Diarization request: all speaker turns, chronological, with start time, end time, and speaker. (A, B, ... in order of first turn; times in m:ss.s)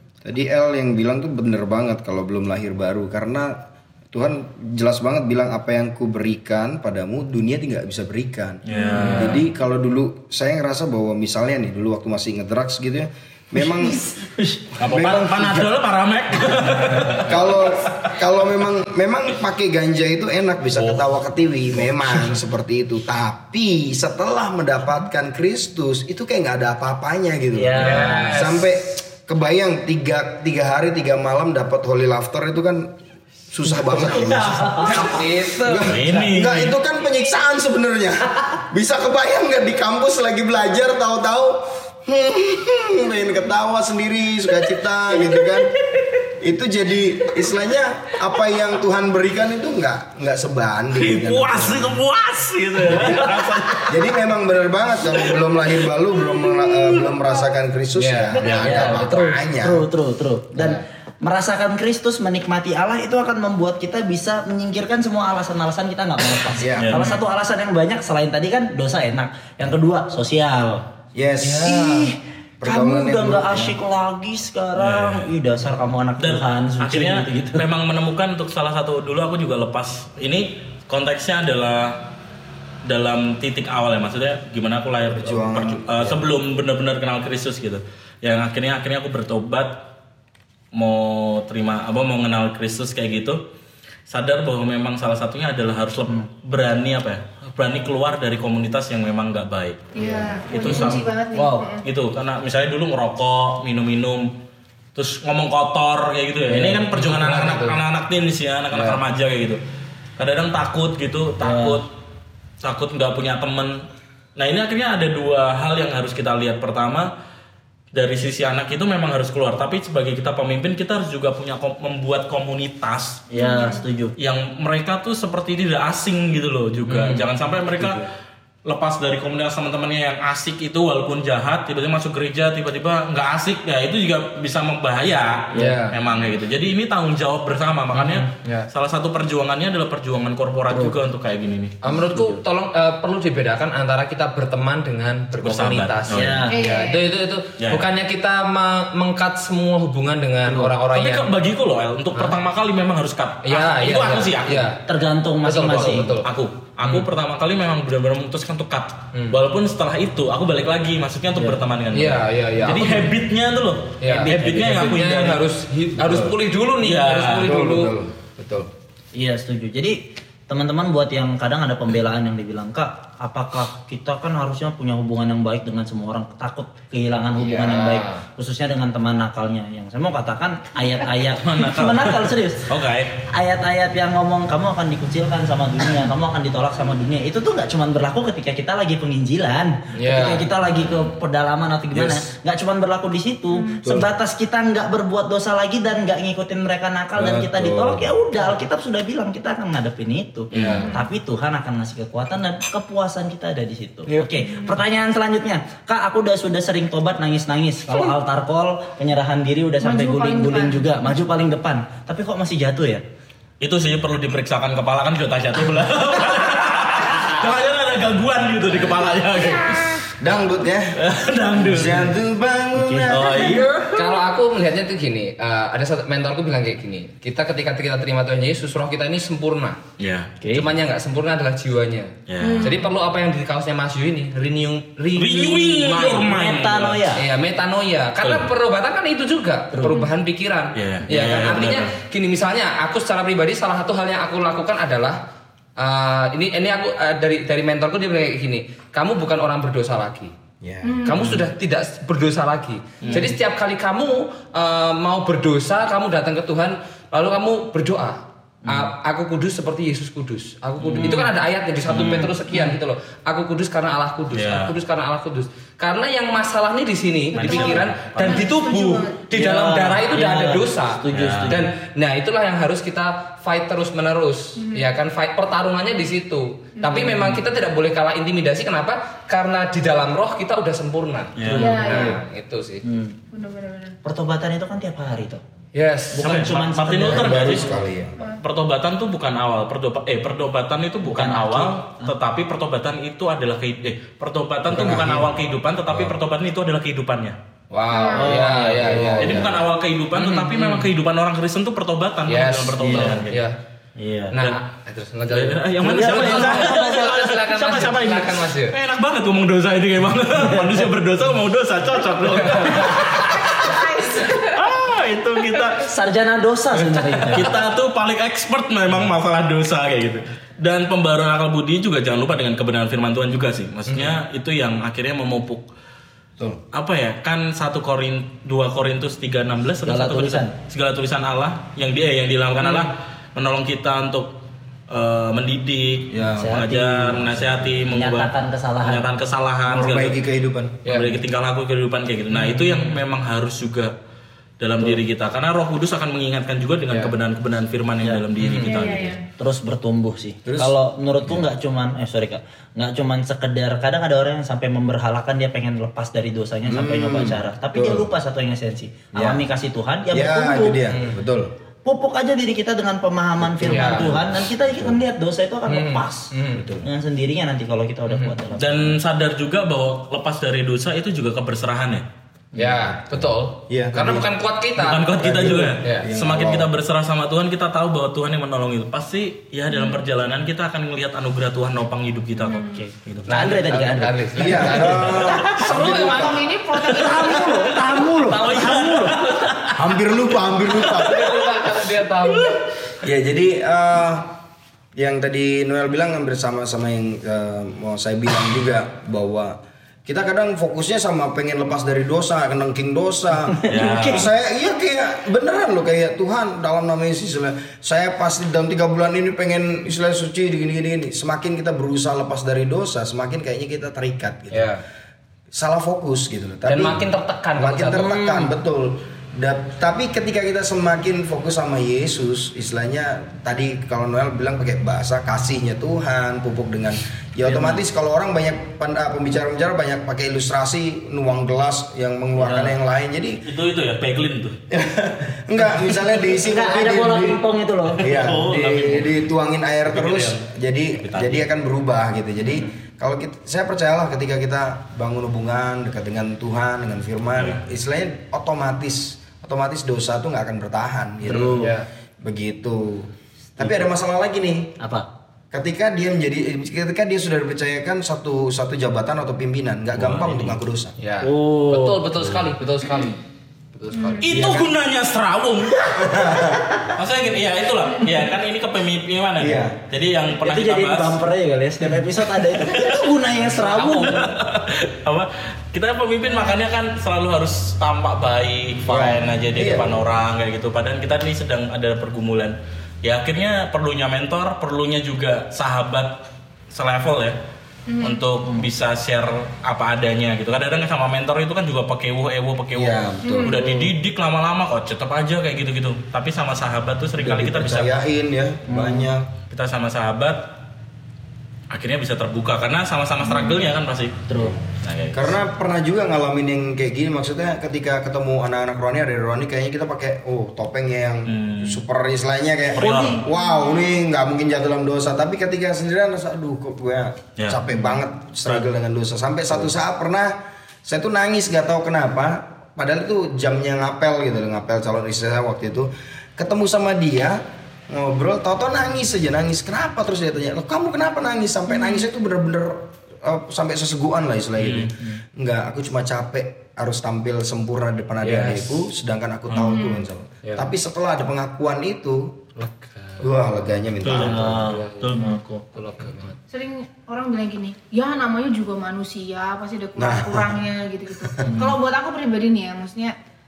0:00.2-0:14.1 A
0:08.6-0:09.4 B
0:08.7-0:09.2 C
0:14.4-0:14.6 D
0:14.7-0:18.1 B
0:14.8-0:15.8 A
0:17.2-0:33.0 A
0:20.7-0:21.1 B
0:27.5-0:28.4 D
0:27.8-0:28.6 E
0:33.5-0:45.7 A
0:33.7-0:35.1 D
0:34.7-0:36.3 E
0:35.8-0:36.7 B
0:46.3-0:52.0 A
0:50.9-0:54.1 B
0:52.9-0:53.3 A
0:53.8-0:59.8 A
0:56.3-0:57.2 C
0:58.0-0:59.1 E
0:58.4-0:58.6 C
0:58.6-1:10.8 D
1:06.6-1:07.0 A
1:06.8-1:07.2 B
1:11.2-1:13.8 A
1:11.4-1:17.7 D
1:14.8-1:15.3 B
1:16.2-1:22.1 B
1:22.8-1:29.8 B
1:25.1-1:26.3 A
1:30.7-1:33.4 B
1:34.1-1:39.9 B
1:40.0-1:41.9 C
1:40.5-1:41.1 B
1:40.6-1:41.7 D
1:41.8-1:44.3 B
1:45.0-1:49.6 B
1:46.5-1:46.8 D
1:46.5-1:47.8 E
1:48.7-1:49.0 E
1:50.2-1:51.9 B
1:51.4-1:51.8 D
1:52.6-1:57.1 B
1:57.9-2:03.3 B
2:03.3-2:04.2 D
2:03.4-2:03.8 C
2:04.2-2:08.0 B
2:06.9-2:07.2 D
2:07.8-2:08.0 D
2:08.7-2:22.4 B
2:15.5-2:16.0 E
2:17.9-2:18.7 E
2:21.8-2:31.3 E
2:25.4-2:26.5 B
2:26.1-2:26.6 D
2:26.5-2:27.1 C
2:27.6-2:27.9 B
2:30.9-2:34.7 B
2:32.1-2:32.4 E
2:33.4-2:34.8 E
2:34.9-2:36.2 D
2:35.4-2:36.3 E
2:35.7-2:45.4 B
2:36.8-2:37.1 E
2:39.1-2:39.4 E
2:41.9-2:43.1 E
2:44.0-2:48.1 E
2:44.1-2:44.8 D
2:46.0-2:46.3 A
2:46.8-2:47.5 B
2:47.4-2:48.6 A
2:49.2-3:02.7 D
2:57.4-2:58.2 E
3:01.4-3:03.2 B
3:03.3-3:33.0 D
3:10.0-3:10.5 E
3:11.9-3:12.3 A
3:13.5-3:13.8 C
3:17.2-3:18.1 A
3:20.5-3:20.9 B
3:20.6-3:20.8 A
3:24.1-3:24.4 E
3:29.8-3:30.9 C
3:33.6-3:40.1 B
3:39.5-3:39.8 C
3:40.2-3:41.0 A
3:40.9-3:42.1 B
3:41.6-3:43.4 A
3:42.8-3:43.5 D
3:43.1-3:44.0 B
3:43.3-3:49.8 E
3:50.0-3:50.3 B
3:50.4-3:50.7 D
3:50.5-3:56.2 E
3:52.3-3:52.8 B
3:52.4-3:52.9 C
3:55.1-3:57.0 B
3:55.8-3:57.2 D
3:57.2-4:05.2 E
3:58.2-3:58.5 B
3:59.7-4:00.0 D
4:00.8-4:01.9 B
4:05.8-4:10.3 E
4:10.6-4:11.1 A
4:10.8-4:11.4 C
4:11.0-4:42.8 E
4:18.6-4:18.9 D
4:20.8-4:21.3 B
4:21.9-4:22.3 B
4:21.9-4:22.7 D
4:24.3-4:24.8 B
4:27.3-4:28.5 B
4:27.4-4:29.2 C
4:29.3-4:31.7 D
4:31.1-4:31.6 B
4:34.6-4:34.9 C
4:36.8-4:37.3 C
4:41.4-4:41.8 B
4:41.5-4:42.2 D
4:41.6-4:42.2 C
4:42.8-4:43.2 D
4:43.3-4:44.0 C
4:44.0-4:45.4 D
4:45.7-4:46.3 E
4:46.1-4:47.6 D
4:46.2-4:47.7 B
4:47.1-4:48.2 A
4:48.4-4:57.4 B
4:51.0-4:52.1 D
4:54.7-4:55.3 A
4:57.7-4:59.6 E
4:57.9-4:58.4 C
4:58.1-4:59.6 D
4:59.2-5:03.4 B
5:00.2-5:00.9 E
5:02.3-5:03.6 E
5:02.8-5:03.2 D
5:04.0-5:04.4 D
5:04.3-5:08.8 E
5:05.3-5:15.8 B
5:05.8-5:06.8 D
5:10.5-5:10.8 D
5:12.5-5:13.2 E
5:13.3-5:14.6 C
5:15.8-5:17.5 D
5:17.3-5:25.7 B
5:23.9-5:24.1 E
5:26.7-5:34.4 B
5:29.8-5:30.5 D
5:34.9-5:38.3 B
5:36.1-5:37.8 A
5:36.4-5:37.3 D
5:37.9-5:39.1 D
5:38.8-5:40.2 B
5:39.7-5:40.8 A
5:40.8-5:41.2 E
5:40.9-5:43.9 B
5:42.4-5:42.8 E
5:44.6-5:49.2 B
5:48.0-6:00.8 D
5:48.6-5:49.2 C
5:50.4-5:51.4 A
5:56.7-5:58.1 A
5:59.1-5:59.4 A
6:00.1-6:01.5 A
6:00.9-6:01.2 E
6:01.8-6:08.9 D
6:03.4-6:05.0 A
6:03.7-6:04.2 E
6:05.7-6:06.7 E
6:06.5-6:06.9 A
6:08.1-6:08.4 E
6:08.6-6:12.0 B
6:12.6-6:16.1 E
6:12.6-6:12.8 A
6:13.7-6:14.3 A
6:14.8-6:23.5 B
6:15.2-6:16.7 A
6:19.7-6:20.0 C
6:22.4-6:22.8 C
6:22.7-6:25.2 D
6:23.3-6:26.2 E
6:24.4-6:29.2 A
6:25.5-6:27.9 C
6:27.0-6:27.3 B
6:28.2-6:29.2 E
6:28.3-6:32.5 B
6:29.7-6:31.3 A
6:30.9-6:32.6 E
6:33.0-6:34.4 A
6:35.0-6:54.8 A
6:43.6-6:44.3 D
6:43.7-6:44.3 B
6:54.5-6:54.8 E
6:55.5-6:57.0 A
6:56.7-6:58.1 E
6:57.6-7:13.4 A
6:58.0-6:58.5 D
7:12.4-7:12.7 B
7:13.4-7:14.6 B
7:14.7-7:17.4 A
7:16.0-7:18.2 D
7:18.0-7:31.6 A
7:18.0-7:19.3 B
7:19.9-7:21.4 B
7:31.2-7:31.7 D
7:31.3-7:31.9 E
7:32.2-7:34.8 A
7:34.8-7:35.1 D
7:35.5-7:40.9 A
7:40.0-7:40.6 B
7:41.0-7:43.2 E
7:41.2-7:42.2 D
7:43.7-7:44.2 E
7:44.2-7:46.4 B
7:44.3-7:44.7 A
7:45.9-7:46.9 A
7:46.9-7:51.2 B
7:49.4-7:49.8 A
7:50.4-7:54.3 D
7:52.4-8:06.2 B
7:53.5-7:54.2 E
7:56.3-7:56.6 C
7:58.9-8:00.0 A
8:06.7-8:07.4 B
8:07.9-8:08.2 C
8:08.0-8:17.9 B
8:12.7-8:13.7 A
8:13.2-8:13.6 C
8:17.2-8:19.3 A
8:18.7-8:19.1 D
8:19.5-8:20.5 B
8:21.7-8:25.4 B
8:23.2-8:23.6 C
8:24.3-8:24.6 D
8:25.1-9:02.4 A
8:31.3-8:31.8 B
8:32.7-8:33.2 B
8:32.9-8:33.9 C
8:51.7-8:52.0 C
8:54.6-8:54.9 B
8:58.2-8:58.7 E
8:59.5-8:59.8 B
8:59.6-9:00.1 C
9:00.4-9:00.7 E
9:02.6-9:03.3 E
9:03.2-9:04.7 A
9:04.0-9:05.4 B
9:04.1-9:05.6 D
9:04.5-9:06.4 E
9:06.5-9:13.2 C
9:10.0-9:10.6 A
9:11.2-9:11.5 A
9:11.5-9:11.8 B